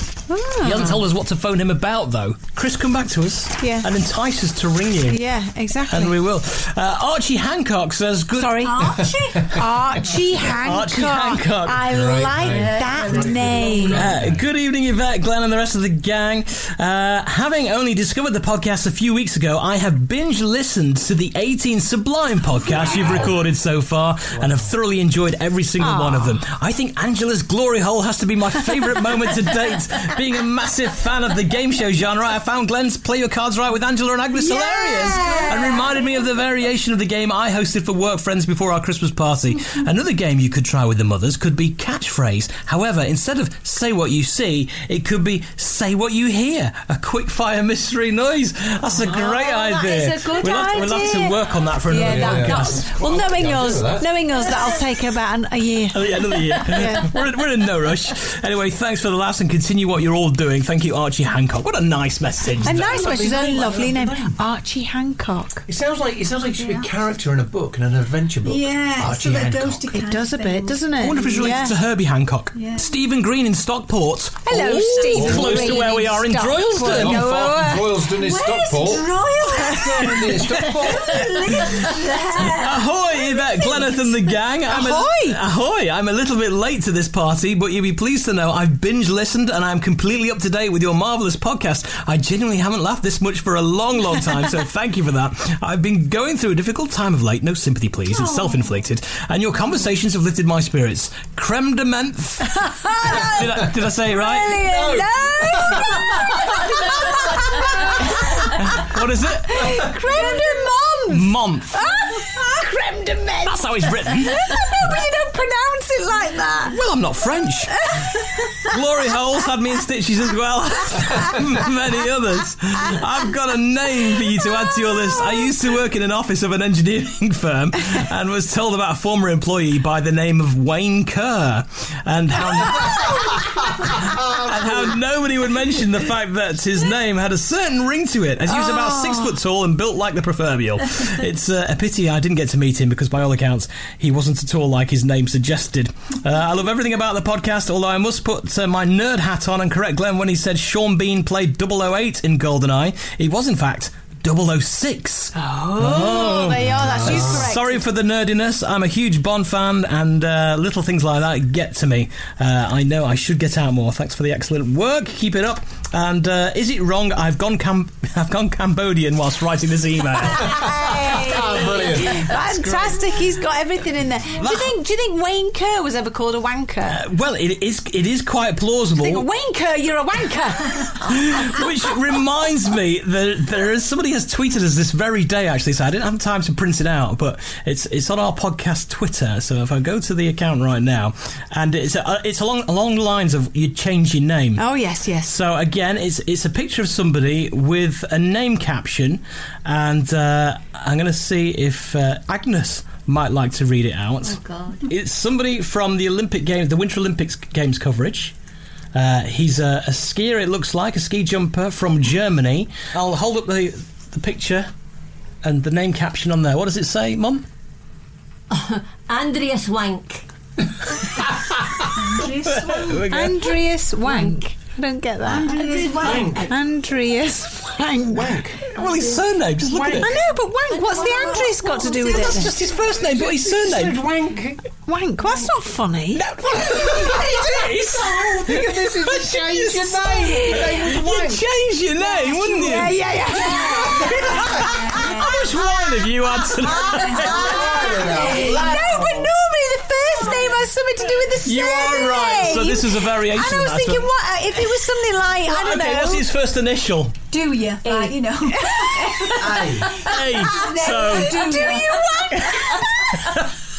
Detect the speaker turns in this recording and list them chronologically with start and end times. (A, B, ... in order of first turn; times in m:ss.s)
0:00.3-0:01.0 A
0:00.6-0:05.2 B
0:03.6-0:03.9 A
0:05.1-0:06.2 A
0:05.9-0:08.9 B
0:08.4-0:14.0 A
0:08.6-0:09.6 C
0:09.4-0:09.6 D
0:10.4-0:12.1 B
0:11.8-0:14.4 D
0:12.4-0:14.0 E
0:13.9-0:52.8 B
0:22.6-0:23.3 D
0:24.3-0:24.7 D
0:25.8-0:26.4 A
0:34.4-0:35.9 A
0:49.0-0:57.1 A
0:52.0-0:54.1 D
0:55.9-1:02.9 B
1:02.5-1:04.4 D
1:02.6-1:05.6 A
1:05.7-1:10.0 D
1:06.5-1:06.9 C
1:08.4-1:11.6 C
1:09.9-1:11.7 A
1:11.0-1:17.4 B
1:12.5-1:12.9 C
1:14.4-1:18.1 A
1:15.1-1:15.9 D
1:16.8-1:21.3 D
1:18.1-1:20.4 C
1:19.6-1:19.8 A
1:20.9-1:24.3 C
1:22.4-1:44.7 B
1:24.6-1:25.4 A
1:38.1-1:38.7 C
1:42.6-1:48.8 A
1:44.6-1:46.0 D
1:48.6-1:49.9 B
1:49.5-1:56.8 A
1:51.1-1:51.8 B
1:53.4-1:54.6 B
1:56.7-1:58.0 B
1:57.7-1:58.8 A
1:58.6-2:51.0 B
2:01.0-2:01.3 A
2:04.1-2:05.5 A
2:14.2-2:14.9 D
2:18.5-2:19.3 A
2:35.3-2:37.8 A
2:36.7-2:37.5 D
2:50.3-2:57.0 A
2:50.5-2:52.2 D
2:52.2-2:53.1 B
2:54.4-2:54.8 B
2:56.9-2:59.2 B
2:59.0-3:01.4 A
3:01.0-3:14.6 B
3:14.6-3:15.3 A
3:15.2-3:28.3 B
3:24.2-3:24.8 E
3:28.9-3:34.7 B
3:35.4-3:37.4 B
3:38.5-3:40.2 E
3:41.9-3:43.1 C
3:42.4-3:43.6 B
3:43.1-3:48.4 A
3:44.1-3:44.4 C
3:45.2-3:46.5 C
3:45.9-3:46.5 D
3:48.1-3:49.0 D
3:48.7-3:50.1 B
3:49.6-3:50.1 D
3:49.9-3:52.5 A
3:50.7-3:52.5 C
3:52.0-3:54.0 B
3:52.8-3:54.6 D
3:54.8-3:56.2 A
3:56.1-4:03.1 B
3:56.6-4:01.4 D
4:00.2-4:00.6 A
4:02.4-4:16.2 A
4:03.2-4:05.6 C
4:03.4-4:04.7 D
4:04.1-4:07.5 B
4:06.7-4:08.8 C
4:07.2-4:09.3 D
4:11.4-4:14.1 B
4:15.4-4:17.2 B
4:17.3-4:22.4 C
4:17.8-4:19.4 A
4:19.3-4:20.0 D
4:20.0-4:21.6 B
4:20.3-4:23.2 A